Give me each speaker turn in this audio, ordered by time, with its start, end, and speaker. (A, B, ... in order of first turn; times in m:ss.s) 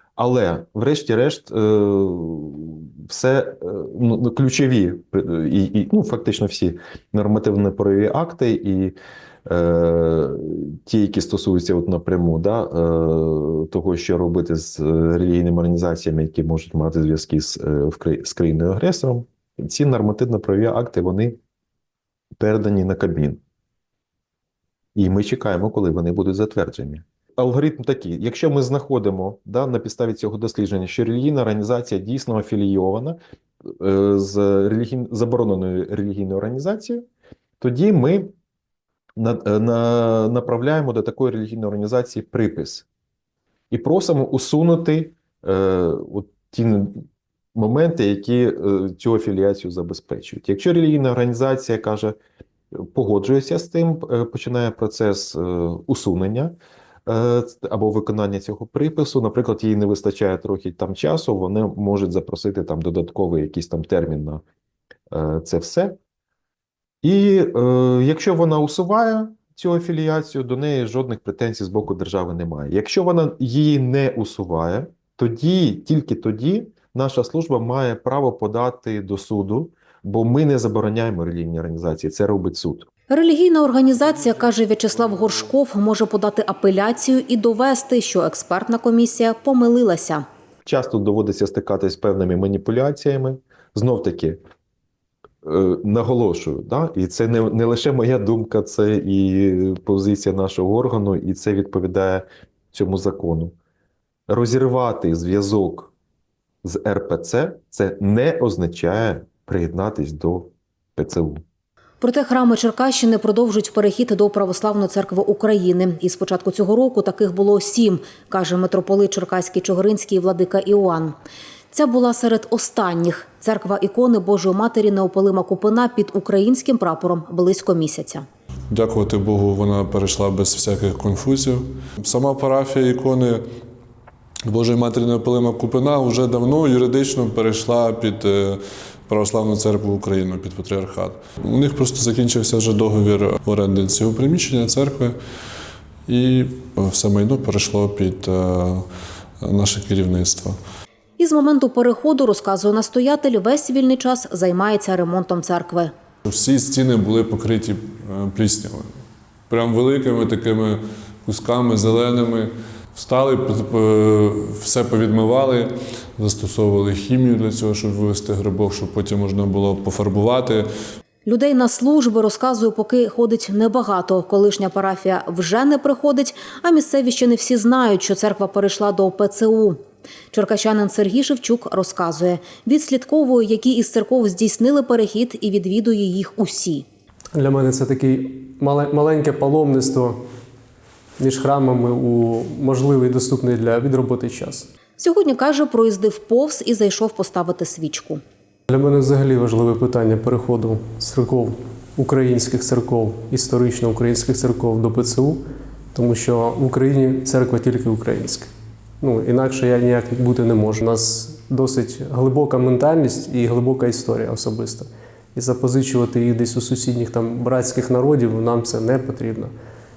0:00.2-0:21.4 A
0:22.4-0:23.4 A
0:25.0-0:33.2 A
0:33.8-0:37.0 A
0:37.6-0:38.3 A
0:39.2-0:42.8 A
0:43.7-0:47.0 A
0:47.5-0:52.2 A
0:52.7-1:04.4 A
1:05.1-1:06.0 A
1:07.0-1:22.9 A
1:23.1-1:30.2 B
1:30.6-1:34.4 A
1:35.4-1:43.5 A
1:44.3-1:45.9 A
1:46.6-1:51.4 A
1:52.0-2:01.1 B
2:01.7-2:08.2 B
2:08.7-2:13.4 C
2:14.5-2:25.1 C
2:26.1-2:28.8 C
2:29.4-2:30.6 C
2:31.2-2:35.9 B
2:36.2-2:38.9 C
2:39.5-2:50.6 C
2:51.2-2:59.8 B
3:00.3-3:06.8 B
3:07.3-3:10.2 D
3:11.2-3:14.7 D
3:15.0-3:18.2 B
3:18.7-3:25.4 D
3:25.9-3:28.5 D
3:29.0-3:39.5 D